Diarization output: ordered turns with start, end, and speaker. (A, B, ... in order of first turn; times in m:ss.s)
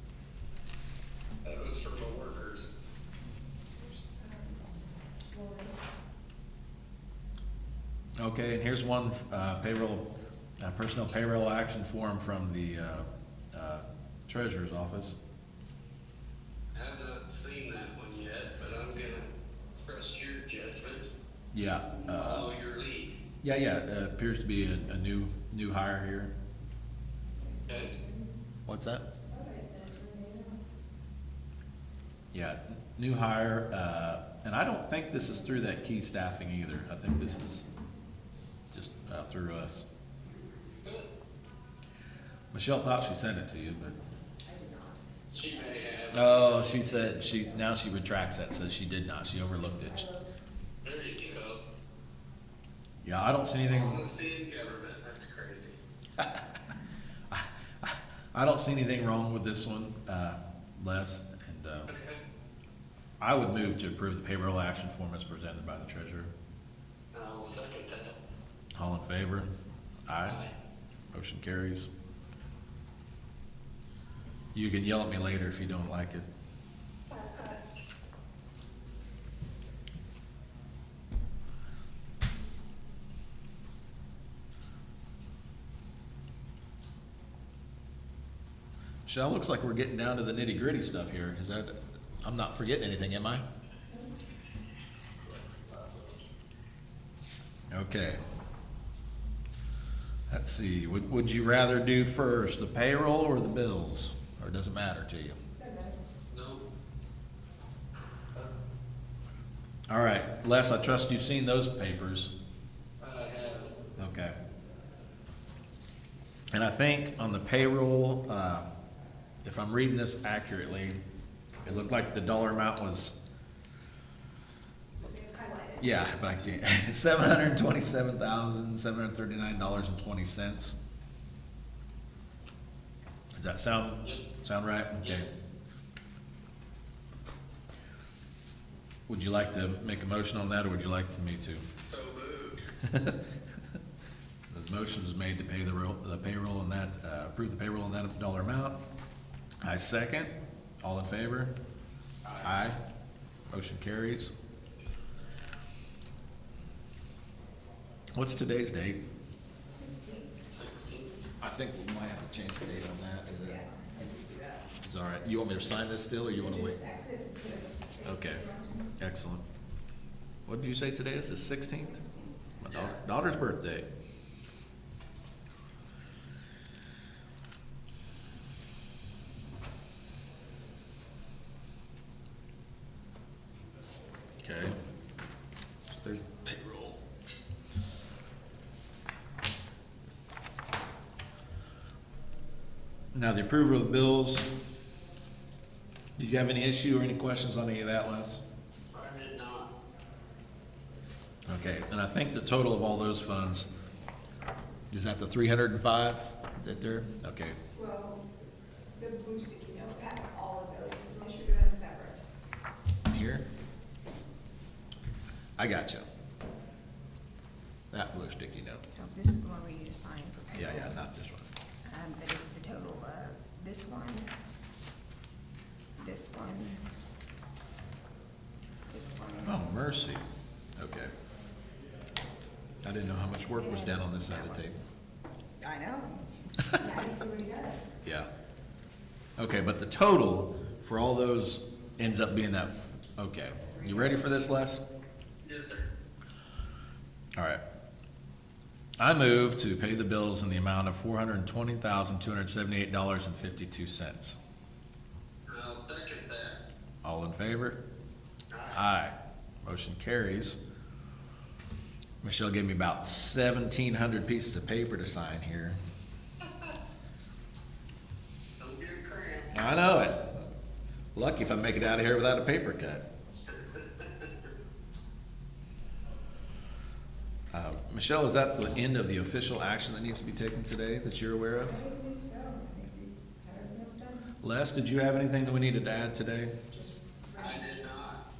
0:01.4-0:02.7 A
0:03.8-0:04.6 B
0:05.3-0:05.9 B
0:08.2-0:10.1 C
0:10.6-0:15.2 C
0:16.7-0:21.1 A
0:21.5-0:22.5 C
0:22.0-0:23.2 A
0:23.4-0:26.3 C
0:27.3-0:28.4 B
0:27.7-0:27.9 A
0:28.7-0:29.1 C
0:29.3-0:30.6 B
0:32.3-0:37.7 C
0:38.7-0:39.9 C
0:40.8-0:41.1 A
0:42.5-0:44.0 C
0:44.4-0:47.7 B
0:45.3-0:46.8 A
0:46.1-0:50.1 C
0:49.8-0:50.4 B
0:50.8-0:51.6 A
0:53.0-0:54.0 C
0:53.6-0:55.8 A
0:56.2-0:56.5 C
0:57.3-1:01.9 C
1:01.9-1:02.2 A
1:03.2-1:06.3 C
1:07.1-1:08.2 A
1:08.8-1:09.5 C
1:10.1-1:10.4 C
1:10.2-1:10.5 A
1:11.1-1:11.9 C
1:14.5-1:16.3 C
1:17.1-1:17.6 A
1:29.1-1:33.4 C
1:35.3-1:36.2 A
1:37.7-1:38.2 C
1:40.3-1:45.4 C
1:45.6-1:46.0 B
1:46.3-1:46.6 A
1:49.9-1:52.3 C
1:53.0-1:53.7 A
1:54.0-1:54.4 C
1:56.5-1:58.7 C
1:59.4-2:01.0 C
2:01.6-2:03.2 C
2:04.9-2:06.4 B
2:05.8-2:10.8 C
2:13.3-2:15.3 C
2:15.0-2:15.3 A
2:19.1-2:21.6 C
2:21.8-2:22.6 A
2:22.8-2:23.2 C
2:24.5-2:28.8 C
2:29.6-2:31.5 C
2:32.2-2:32.6 A
2:32.4-2:32.8 C
2:33.5-2:34.3 C
2:38.1-2:39.0 C
2:39.7-2:40.4 B
2:40.5-2:41.2 A
2:41.4-2:43.6 C
2:43.4-2:44.8 B
2:44.8-2:46.8 C
2:46.4-2:48.9 B
2:48.0-2:48.4 C
2:49.0-2:49.4 C
2:50.5-2:52.0 C
2:51.6-2:52.6 B
2:52.6-2:53.9 C
2:52.7-2:53.0 A
3:04.4-3:04.8 C
3:05.9-3:06.5 C
3:06.5-3:06.9 A
3:13.1-3:14.5 C
3:16.2-3:18.4 C
3:18.9-3:19.7 A
3:21.5-3:23.7 C
3:24.9-3:27.6 C
3:27.7-3:28.3 B
3:29.0-3:32.3 B
3:33.1-3:33.5 C
3:35.6-3:36.0 C
3:37.9-3:38.8 C
3:38.9-3:41.0 B
3:40.5-3:41.5 C
3:41.9-3:44.3 B
3:46.0-3:46.8 B
3:48.9-3:49.7 B
3:49.4-3:50.2 C
3:50.8-3:51.1 C
3:52.8-3:54.8 C
3:53.6-3:54.6 B
3:55.6-3:58.0 B
3:59.4-4:04.8 C
4:03.6-4:04.2 B
4:05.4-4:05.9 A
4:07.4-4:07.6 C
4:09.0-4:14.4 C
4:15.5-4:16.6 A
4:17.0-4:17.8 C
4:18.5-4:18.8 A
4:18.7-4:20.6 C
4:22.2-4:25.8 C
4:26.5-4:26.7 A
4:28.6-4:29.5 A
4:29.5-4:30.5 C
4:31.2-4:33.0 C
4:33.5-4:34.3 A
4:37.5-4:41.8 C
4:41.6-4:44.3 B
4:44.4-4:46.5 C
4:46.7-4:47.6 B
4:47.4-4:48.2 A